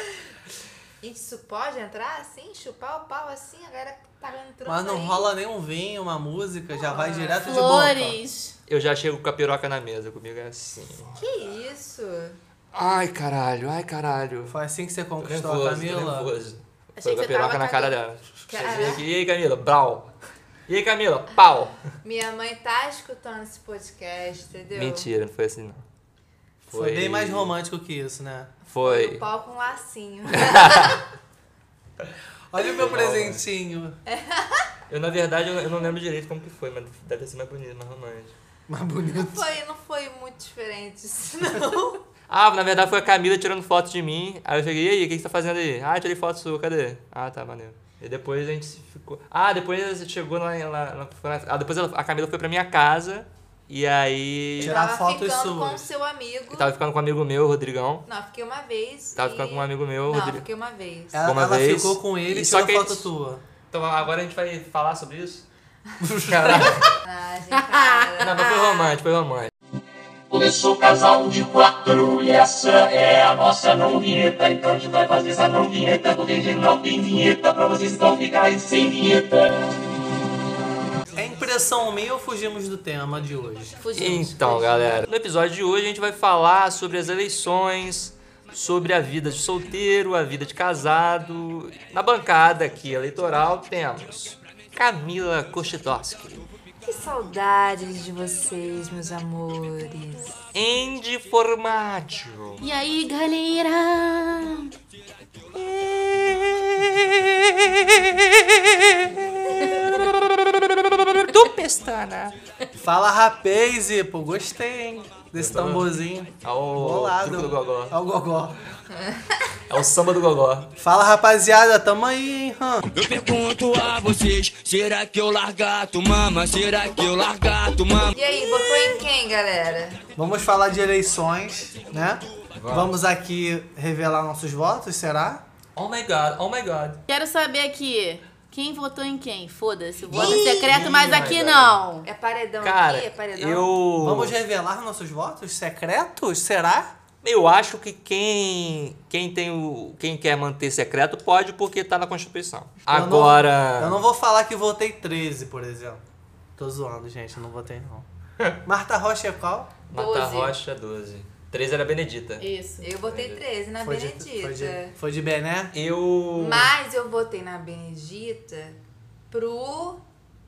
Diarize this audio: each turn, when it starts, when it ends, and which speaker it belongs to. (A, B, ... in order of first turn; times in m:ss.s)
0:01.0-0:05.3 A
0:04.6-0:08.2 B
0:06.9-0:07.3 A
0:07.3-0:08.5 C
0:08.7-0:11.2 D
0:11.1-0:12.4 A
0:12.7-0:14.5 D
0:14.5-0:16.3 B
0:15.2-0:20.1 D
0:17.0-0:18.0 C
0:18.5-0:19.0 A
0:18.5-0:19.0 B
0:20.7-0:21.7 D
0:22.0-0:25.1 A
0:24.8-0:25.8 D
0:26.7-0:27.5 D
0:26.7-0:28.5 B
0:28.7-0:29.2 D
0:28.8-0:31.0 A
0:32.5-0:34.0 B
0:32.7-0:33.4 D
0:34.1-0:34.7 A
0:34.9-0:38.3 D
0:38.7-0:39.4 B
0:39.0-0:42.0 A
0:42.3-0:54.8 D
0:54.6-0:55.9 B
0:54.6-0:56.7 A
0:56.5-0:58.0 D
0:58.0-1:01.2 A
0:59.2-1:00.4 D
1:01.1-1:03.4 B
1:01.2-1:03.1 D
1:03.7-1:05.4 D
1:06.0-1:06.8 B
1:06.2-1:06.9 D
1:07.0-1:08.5 A
1:07.5-1:08.9 C
1:08.2-1:09.5 D
1:10.3-1:19.6 E
1:21.1-1:23.8 B
1:23.8-1:25.0 C
1:23.9-1:36.4 D
1:36.8-1:40.3 A
1:40.5-1:42.6 D
1:42.6-1:44.7 C
1:45.5-1:52.3 D
1:52.8-1:58.6 B
1:55.3-1:55.9 D
1:56.4-1:57.9 D
1:58.9-1:59.4 A
1:59.7-2:00.7 D
2:00.8-2:02.8 B
2:02.9-2:08.1 F
2:08.1-2:10.0 A
2:10.2-2:15.4 B
2:12.5-2:12.9 D
2:15.8-2:17.0 D
2:17.1-2:22.0 C
2:20.1-2:20.9 A
2:20.1-2:21.8 D
2:21.0-2:21.2 B
2:22.0-2:23.7 A
2:22.6-2:24.3 D
2:24.0-2:26.9 B
2:27.2-2:34.0 D
2:32.9-2:36.0 B
2:36.6-2:38.1 B
2:38.6-2:39.7 B
2:39.9-2:42.4 D
2:39.9-2:40.5 A
2:42.4-2:42.9 C
2:42.8-2:44.9 A
2:43.0-2:43.4 D
2:43.8-2:45.7 B
2:45.7-2:46.7 D
2:46.4-2:48.8 A
2:49.3-2:50.0 A